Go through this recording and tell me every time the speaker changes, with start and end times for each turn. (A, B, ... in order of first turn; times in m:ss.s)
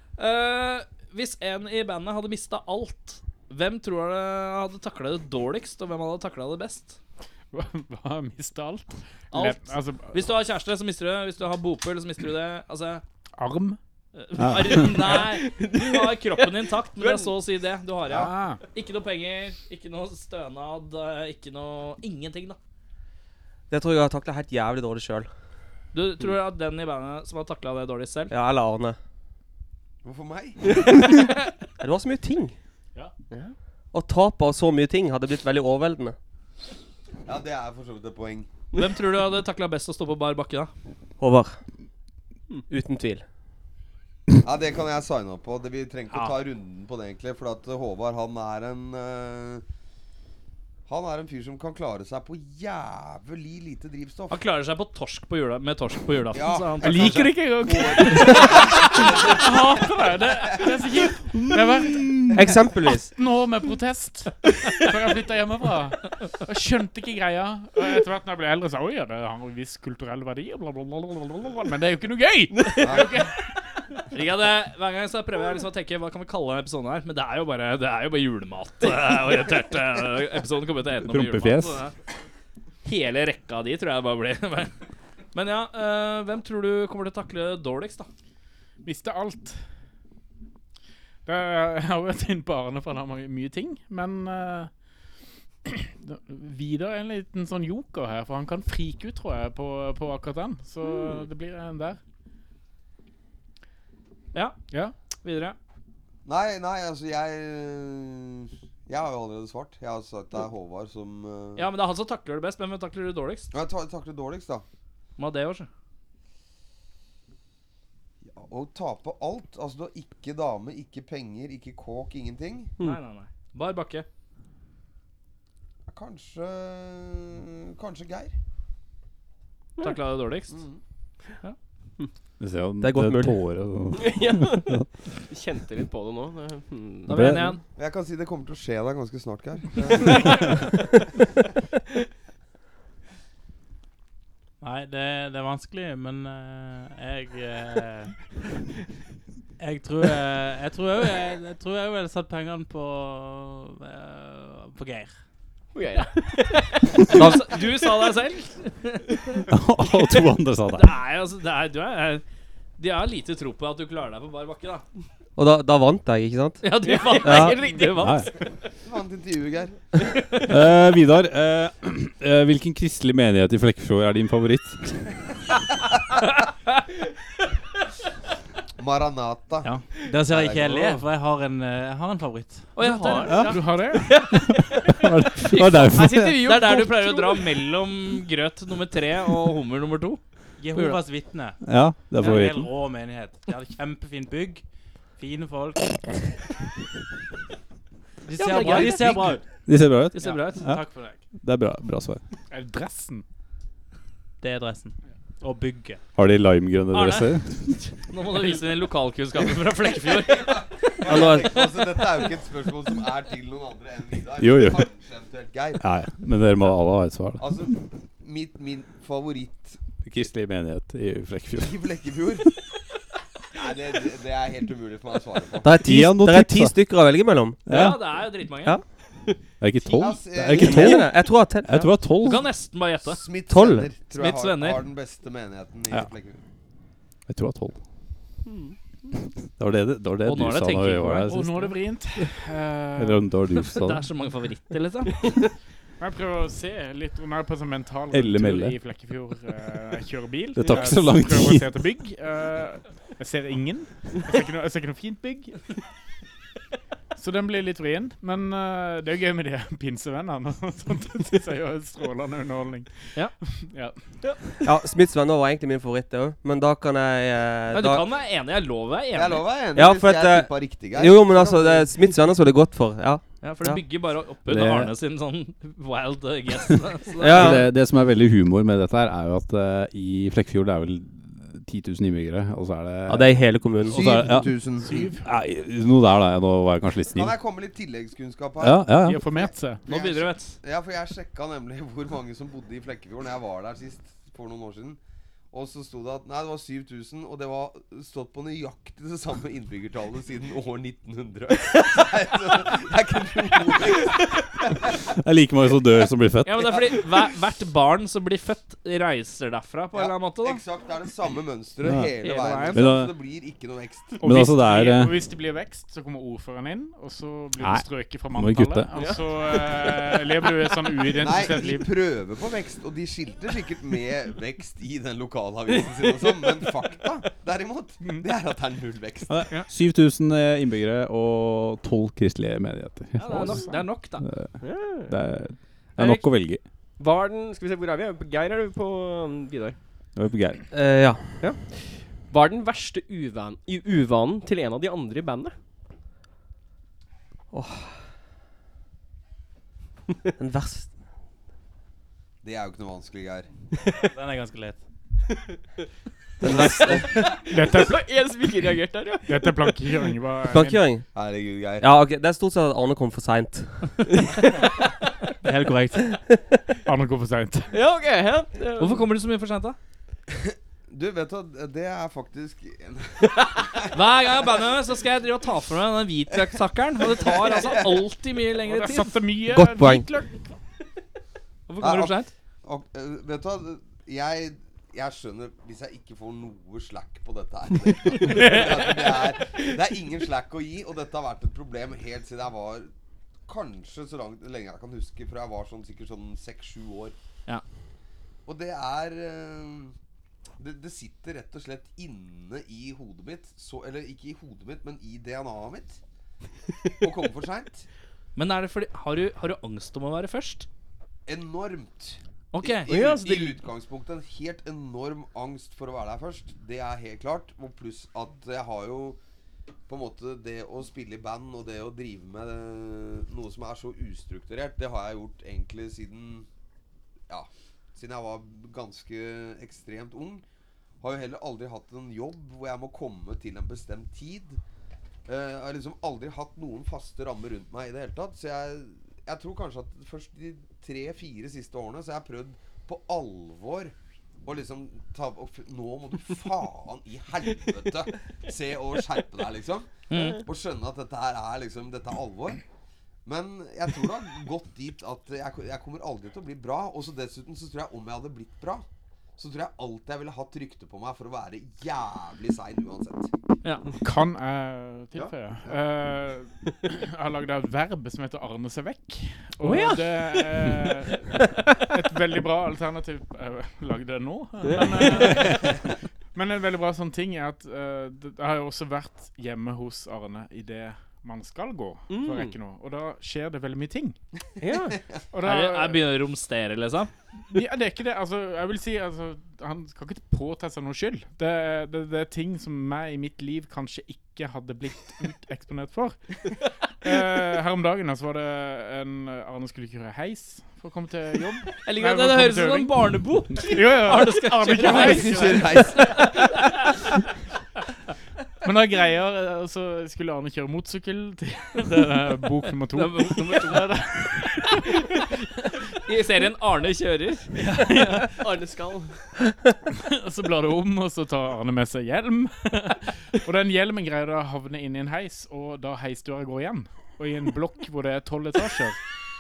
0:00.2-0:07.0 A
0:07.5-0:10.3 B
0:09.3-0:13.0 A
0:13.4-0:13.8 B
0:14.2-0:22.6 A
0:14.4-0:14.9 C
0:14.9-0:17.4 D
0:18.1-0:18.6 B
0:23.7-0:25.3 E
0:25.9-0:28.3 A
0:28.3-0:29.0 E
0:30.0-0:30.8 F
0:31.8-0:32.6 E
0:33.9-0:36.2 E
0:37.3-0:38.5 F
0:38.7-0:40.7 A
0:41.2-0:41.6 E
0:42.7-0:43.2 E
0:44.4-0:49.6 F
0:50.9-0:54.4 F
0:54.3-0:57.4 A
0:56.3-1:00.8 F
0:56.8-1:13.4 B
0:58.0-0:58.4 A
1:01.5-1:02.3 G
1:02.3-1:03.1 E
1:12.8-1:13.1 F
1:14.1-1:21.9 A
1:21.0-1:21.8 C
1:22.8-1:24.7 A
1:25.4-1:28.1 A
1:28.8-1:29.6 B
1:31.3-1:34.7 B
1:35.6-1:42.0 B
1:45.2-1:45.6 A
1:46.2-1:51.7 F
1:51.6-1:53.5 A
1:53.5-1:54.6 F
1:55.2-1:55.7 A
1:58.3-2:02.7 F
2:02.8-2:04.1 A
2:05.9-2:08.3 F
2:09.8-2:10.6 A
2:10.5-2:10.8 F
2:12.4-2:14.9 C
2:12.8-2:13.4 E
2:13.9-2:17.2 D
2:17.1-2:17.6 A
2:17.1-2:17.6 C
2:17.8-2:20.8 F
2:24.6-2:28.1 G
2:29.6-2:35.1 G
2:35.7-2:37.1 D
2:37.1-2:39.4 A
2:37.1-2:37.4 E
2:39.5-2:40.9 C
2:40.7-2:42.2 A
2:42.8-2:44.8 A
2:45.4-2:46.7 E
2:46.6-2:48.3 A
2:46.8-2:48.1 D
2:47.2-2:47.6 E
2:48.0-2:48.3 C
2:48.8-2:49.8 F
2:50.5-2:54.9 C
2:58.8-2:59.7 F
2:59.7-3:03.3 G
3:00.3-3:01.0 F
3:02.8-3:03.7 A
3:03.0-3:03.5 D
3:03.4-3:04.1 B
3:04.1-3:04.9 D
3:04.6-3:06.4 C
3:05.4-3:10.2 A
3:05.5-3:07.5 D
3:10.6-3:11.6 G
3:11.6-3:12.7 C
3:12.1-3:14.6 G
3:15.2-3:16.1 G
3:18.3-3:19.4 G
3:18.3-3:19.4 A
3:18.4-3:19.0 D
3:19.6-3:22.2 C
3:20.1-3:20.6 A
3:20.2-3:21.2 G
3:22.5-3:23.2 B
3:24.4-3:26.0 G
3:26.2-3:27.7 C
3:26.9-3:30.6 A
3:30.1-3:35.8 F
3:31.0-3:31.7 E
3:34.4-3:34.9 C
3:35.8-3:37.6 C
3:37.4-3:39.8 F
3:40.0-3:41.8 C
3:41.6-3:42.5 F
3:43.5-3:45.8 F
3:45.6-3:47.6 E
3:45.8-3:46.8 C
3:47.6-3:48.0 C
3:47.7-3:48.8 A
3:49.6-3:52.4 C
3:49.9-3:51.0 F
3:50.5-3:51.9 E
3:52.2-3:53.2 A
3:53.0-3:56.4 F
3:53.5-3:53.9 E
3:54.1-3:54.8 A
3:57.3-3:57.8 C
3:58.4-3:58.7 D
3:59.6-4:01.7 C
4:00.2-4:01.4 A
4:01.2-4:03.2 B
4:03.0-4:04.0 C
4:03.6-4:05.3 A
4:06.0-4:15.7 B
4:08.1-4:08.8 C
4:10.6-4:11.7 C
4:17.2-4:24.3 B
4:24.6-4:28.1 E
4:27.7-4:29.4 A
4:29.1-4:31.9 F
4:29.7-4:33.8 E
4:33.4-4:37.6 A
4:34.5-4:34.9 C
4:37.2-4:37.7 E
4:37.3-4:47.3 C
4:43.1-4:44.0 E
4:43.9-4:45.1 F
4:44.8-4:45.3 B
4:47.1-4:55.0 F
4:48.6-4:49.2 C
4:48.9-4:49.9 B
4:49.9-4:50.6 A
4:55.5-5:05.0 F
5:05.1-5:06.8 C
5:06.4-5:10.6 A
5:09.9-5:14.2 F
5:11.8-5:12.2 C
5:12.2-5:12.8 A
5:12.7-5:13.1 C
5:14.2-5:21.9 B
5:14.2-5:15.2 C
5:17.6-5:18.9 C
5:18.9-5:20.3 D
5:21.2-5:29.4 F
5:25.9-5:26.3 D
5:28.0-5:28.3 B
5:29.3-5:36.6 C
5:33.2-5:34.2 A
5:34.6-5:35.1 D
5:36.0-5:36.2 A
5:37.0-5:39.8 D
5:40.2-5:40.6 C
5:40.7-5:41.5 E
5:41.4-5:45.5 D
5:47.5-5:48.0 E
5:50.4-5:50.9 E
5:52.4-5:53.5 F
5:53.9-5:54.8 G
5:56.4-5:57.2 E
5:56.4-5:57.0 F
5:56.4-6:00.1 D
5:57.4-5:58.2 B
5:59.3-6:00.9 B
6:00.5-6:01.1 E
6:01.1-6:01.9 F
6:01.8-6:04.1 E
6:05.4-6:06.1 G
6:06.8-6:07.8 B
6:07.7-6:09.0 D
6:08.8-6:09.8 A
6:10.4-6:13.9 F
6:13.9-6:19.1 A
6:17.1-6:17.9 F
6:18.6-6:20.5 B
6:19.5-6:20.1 E
6:21.7-6:22.3 A
6:21.8-6:32.9 F
6:28.3-6:28.9 B
6:33.5-6:37.2 F
6:38.4-6:39.9 F
6:40.6-6:46.0 F
6:47.0-6:47.9 F
6:48.4-6:50.7 A
6:51.3-6:59.2 F
6:52.5-6:52.9 A
6:52.9-6:53.6 D
6:59.9-7:06.5 F
7:07.3-7:10.4 F
7:11.0-7:14.6 F
7:15.3-7:32.6 F
7:30.1-7:30.4 A
7:33.2-7:38.8 F
7:39.4-7:43.3 F
7:44.0-8:04.2 B
7:49.6-7:51.0 D
7:54.6-7:55.6 D
8:02.1-8:02.6 D
8:04.6-8:05.0 D
8:05.3-8:06.1 B
8:05.4-8:07.1 A
8:07.5-8:16.4 B
8:17.0-8:26.3 B
8:21.8-8:26.8 A
8:24.8-8:26.4 F
8:28.6-8:35.0 B
8:32.9-8:34.0 A
8:36.0-8:38.2 A
8:38.2-8:39.3 D
8:39.9-8:49.0 B